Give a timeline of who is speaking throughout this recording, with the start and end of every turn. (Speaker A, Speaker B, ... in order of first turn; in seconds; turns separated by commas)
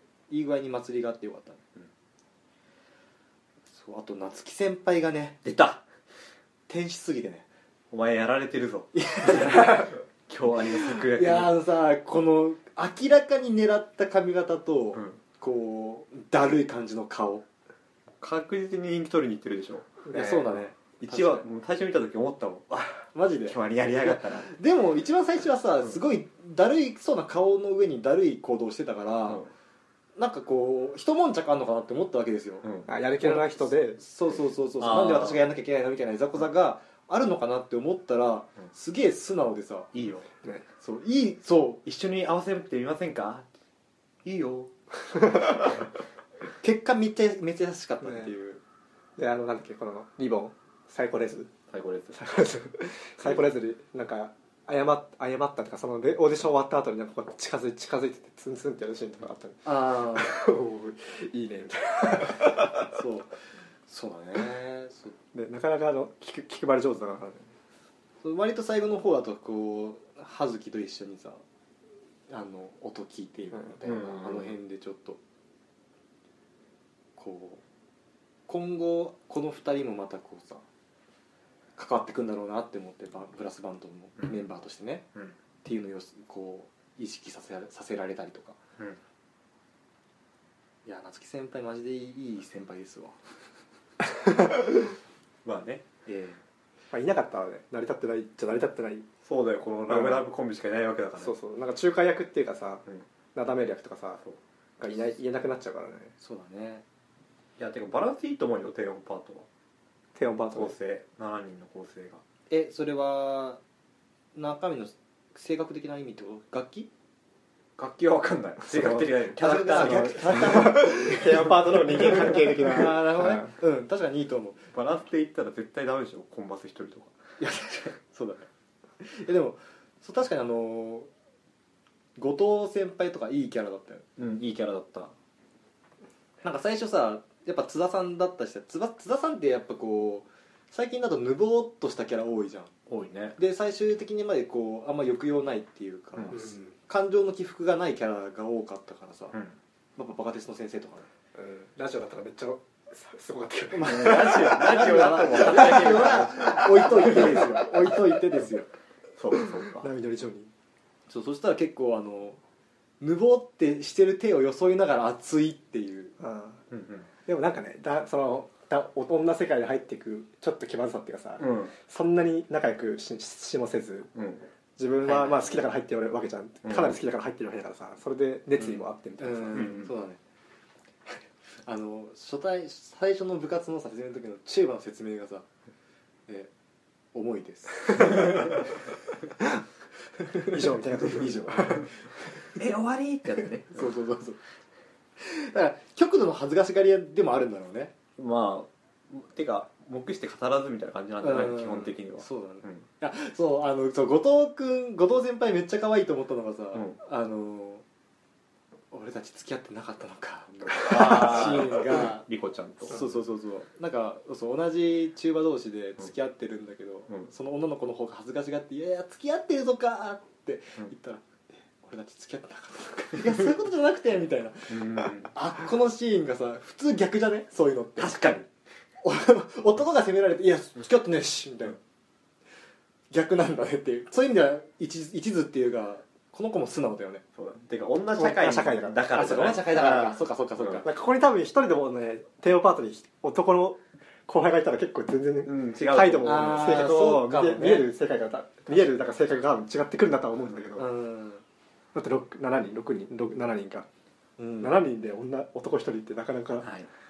Speaker A: 0.3-1.6, Speaker A: 3.7-5.4, Speaker B: 5.4-5.8, Speaker A: 6.7-7.4, Speaker B: 7.9-11.6, Speaker A: 8.9-9.9, Speaker A: 10.8-17.4, Speaker B: 18.2-20.1, Speaker C: 20.1-20.5, Speaker A: 20.1-21.4, Speaker B: 21.0-24.5, Speaker A: 23.1-29.4, Speaker A: 30.2-32.7, Speaker B: 32.6-32.9, Speaker C: 32.9-34.0, Speaker A: 33.2-39.9, Speaker B: 34.8-35.5, Speaker B: 39.9-40.3, Speaker A: 40.8-41.8, Speaker B: 41.8-43.5, Speaker B: 44.2-44.7, Speaker C: 45.1-45.7, Speaker A: 46.6-48.6, Speaker C: 48.0-48.3, Speaker C: 49.2-51.5, Speaker B: 51.7-52.2, Speaker C: 52.1-62.9, Speaker A: 59.6-60.3, Speaker A: 62.8-65.2, Speaker C: 65.3-67.5, Speaker A: 68.2-71.4, Speaker A: 72.3-75.2, Speaker B: 73.8-74.5, Speaker A: 77.2-77.6, Speaker A: 78.5-80.6, Speaker A: 81.8-85.0, Speaker B: 84.2-84.5, Speaker A: 85.6-88.5, Speaker A: 90.8-93.3, Speaker B: 95.4-95.8, Speaker A: 96.0-96.4, Speaker C: 96.9-99.1, Speaker B: 99.2-101.3, Speaker C: 99.9-100.2, Speaker C: 101.2-102.8, Speaker C: 103.3-104.2, Speaker C: 104.8-106.1, Speaker A: 106.2-106.8, Speaker B: 107.6-109.5, Speaker C: 110.1-110.8, Speaker B: 110.5-112.2, Speaker A: 112.5-113.6, Speaker A: 114.3-116.9, Speaker B: 117.8-122.8, Speaker C: 118.7-123.5, Speaker A: 119.4-121.2, Speaker A: 122.6-124.6, Speaker B: 124.7-127.2, Speaker A: 127.4-128.5, Speaker A: 129.0-131.1, Speaker A: 132.2-134.0, Speaker B: 134.2-135.1, Speaker A: 136.4-142.7, Speaker B: 142.9-143.4, Speaker A: 143.4-149.4, Speaker C: 146.3-146.7, Speaker A: 150.0-151.1, Speaker C: 151.3-157.4, Speaker A: 153.7-158.7, Speaker B: 153.8-157.7, Speaker B: 159.2-159.9, Speaker C: 159.4-160.5, Speaker A: 161.1-162.4, Speaker A: 163.0-166.1, Speaker C: 166.2-166.6, Speaker B: 166.7-167.1, Speaker C: 167.2-174.1, Speaker B: 171.4-171.7, Speaker B: 174.1-174.5, Speaker C: 174.8-179.8, Speaker A: 175.0-175.6, Speaker B: 176.6-177.0, Speaker A: 178.6-180.2, Speaker B: 179.5-179.9, Speaker A: 181.1-185.4, Speaker A: 187.1-188.7, Speaker C: 187.9-188.6, Speaker A: 190.2-191.9, Speaker C: 190.4-191.9, Speaker B: 192.5-194.0, Speaker A: 193.7-194.4, Speaker A: 195.2-197.9, Speaker B: 198.2-202.8, Speaker A: 201.2-207.8, Speaker A: 208.9-212.2, Speaker B: 210.8-213.1, Speaker A: 212.9-221.2, Speaker A: 221.8-228.2, Speaker B: 224.7-225.3, Speaker B: 228.0-228.5, Speaker A: 229.0-231.8, Speaker A: 233.1-237.2, Speaker B: 237.3-239.9, Speaker C: 238.2-240.2, Speaker A: 239.1-240.9, Speaker B: 240.6-240.8, Speaker C: 240.8-250.9, Speaker B: 245.4-246.8, Speaker A: 246.2-247.9, Speaker A: 250.8-251.4, Speaker C: 251.9-253.9, Speaker A: 254.4-254.8, Speaker C: 254.6-256.7, Speaker B: 256.6-256.9